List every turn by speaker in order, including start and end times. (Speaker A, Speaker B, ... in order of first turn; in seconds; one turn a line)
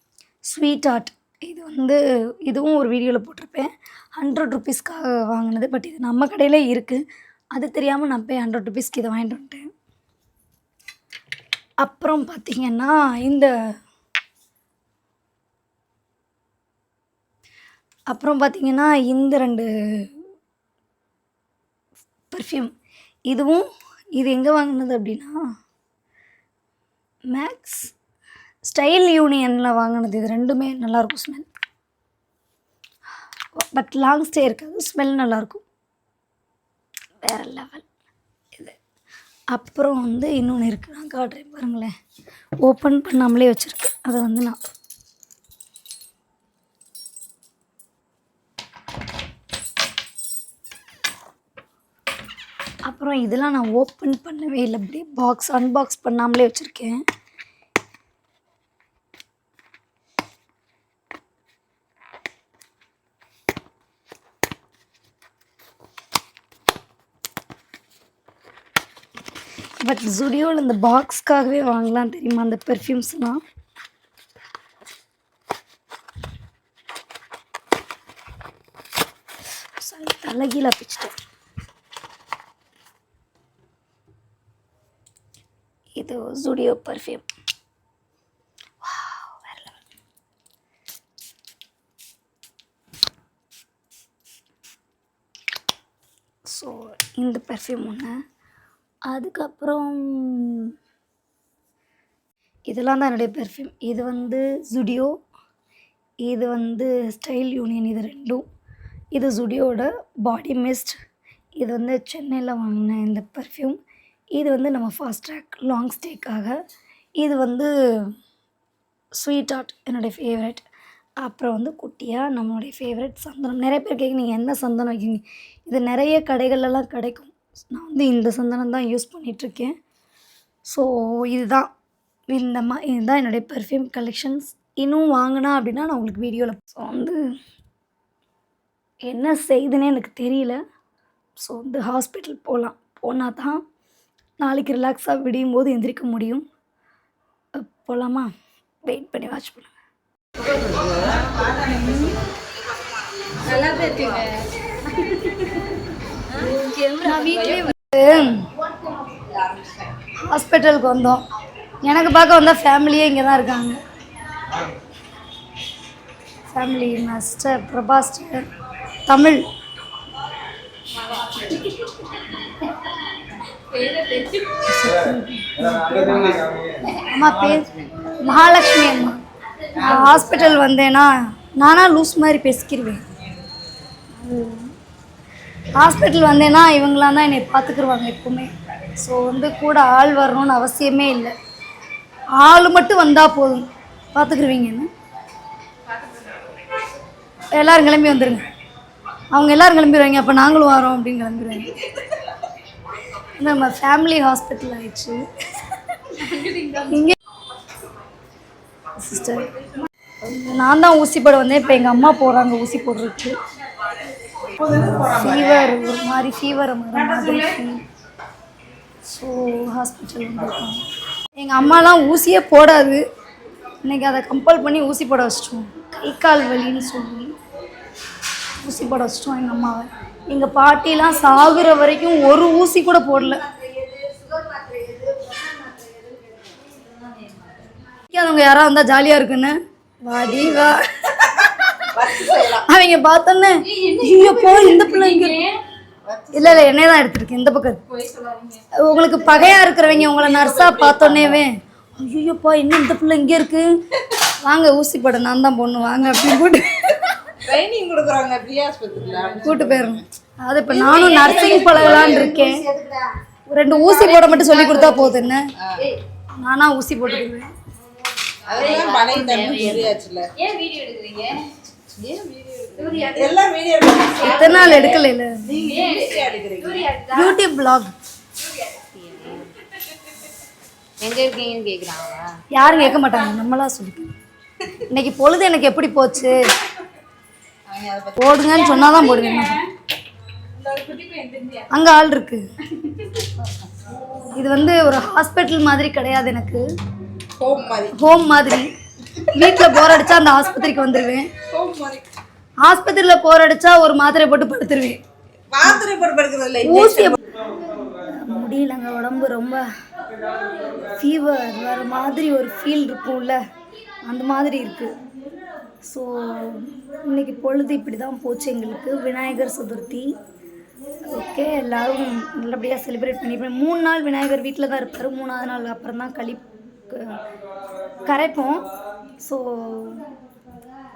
Speaker A: 0.5-9.7
Speaker A: 11.8-13.5
Speaker A: 18.1-20.2
Speaker A: 22.3-22.7
Speaker A: 23.3-25.4
Speaker A: 27.3-27.9
Speaker A: 28.6-31.5
Speaker A: 33.5-35.6
Speaker A: 37.2-37.9
Speaker A: 39.5-41.9
Speaker A: 42.6-44.6
Speaker A: 52.9-57.0
Speaker A: 69.8-73.4
Speaker A: 79.7-81.1
Speaker A: 86.0-87.3
Speaker A: 88.8-89.8
Speaker A: 96.5-98.2
Speaker A: 99.1-100.7
Speaker A: 102.7-105.2
Speaker A: 106.2-108.4
Speaker A: 109.1-111.0
Speaker A: 111.6-113.8
Speaker A: 114.3-116.6
Speaker A: 117.2-118.1
Speaker A: 119.2-120.6
Speaker A: 121.2-129.7
Speaker A: 130.7-131.7
Speaker A: 132.3-137.2
Speaker A: 139.1-140.6
Speaker A: 141.4-143.6
Speaker A: 144.4-146.4
Speaker A: 147.6-148.3
Speaker A: 148.8-149.7
Speaker B: 150.6-152.1
Speaker C: 153.5-154.2
Speaker B: 153.5-154.2
Speaker C: 156.4-156.8
Speaker A: 156.6-158.5
Speaker A: 160.2-161.2
Speaker A: 161.8-163.8
Speaker A: 166.5-168.4
Speaker A: 169.1-169.4
Speaker C: 173.8-174.4
Speaker A: 174.5-183.0
Speaker B: 177.6-177.9
Speaker A: 184.2-184.7
Speaker A: 185.8-191.3
Speaker A: 192.4-194.9
Speaker A: 197.5-198.4
Speaker A: 199.3-201.9
Speaker A: 203.1-207.2
Speaker A: 209.0-209.6
Speaker A: 210.2-213.4
Speaker B: 214.7-215.0
Speaker A: 214.9-217.8
Speaker A: 219.0-223.0
Speaker A: 223.8-227.3
Speaker A: 228.5-233.6
Speaker C: 235.9-236.3
Speaker A: 238.0-245.6
Speaker B: 241.9-242.7
Speaker B: 246.0-246.7
Speaker A: 246.3-247.8
Speaker C: 248.1-248.6
Speaker A: 248.7-257.4
Speaker B: 250.1-251.3
Speaker B: 257.4-260.0
Speaker A: 259.4-262.7
Speaker B: 261.1-262.9
Speaker C: 262.8-263.0
Speaker A: 263.5-265.5
Speaker B: 265.6-265.8
Speaker A: 266.3-267.5
Speaker B: 268.4-270.5
Speaker C: 268.5-269.9
Speaker C: 270.4-271.4
Speaker B: 271.9-274.9
Speaker C: 272.7-273.2
Speaker A: 274.2-275.7
Speaker B: 275.4-277.0
Speaker A: 277.0-277.9
Speaker C: 278.9-279.5
Speaker C: 281.0-282.4
Speaker A: 282.5-284.1
Speaker A: 284.8-286.4
Speaker B: 287.7-288.6
Speaker A: 288.2-289.7
Speaker B: 290.6-291.5
Speaker C: 290.7-291.6
Speaker A: 291.7-292.4
Speaker A: 294.3-296.6
Speaker B: 297.4-297.9
Speaker A: 297.9-301.3
Speaker B: 301.5-302.0
Speaker A: 302.6-305.0
Speaker B: 305.5-307.2
Speaker A: 306.6-309.6
Speaker A: 310.7-313.4
Speaker A: 314.0-314.9
Speaker A: 315.8-320.2
Speaker A: 321.0-327.2
Speaker A: 328.0-328.7
Speaker A: 329.2-330.1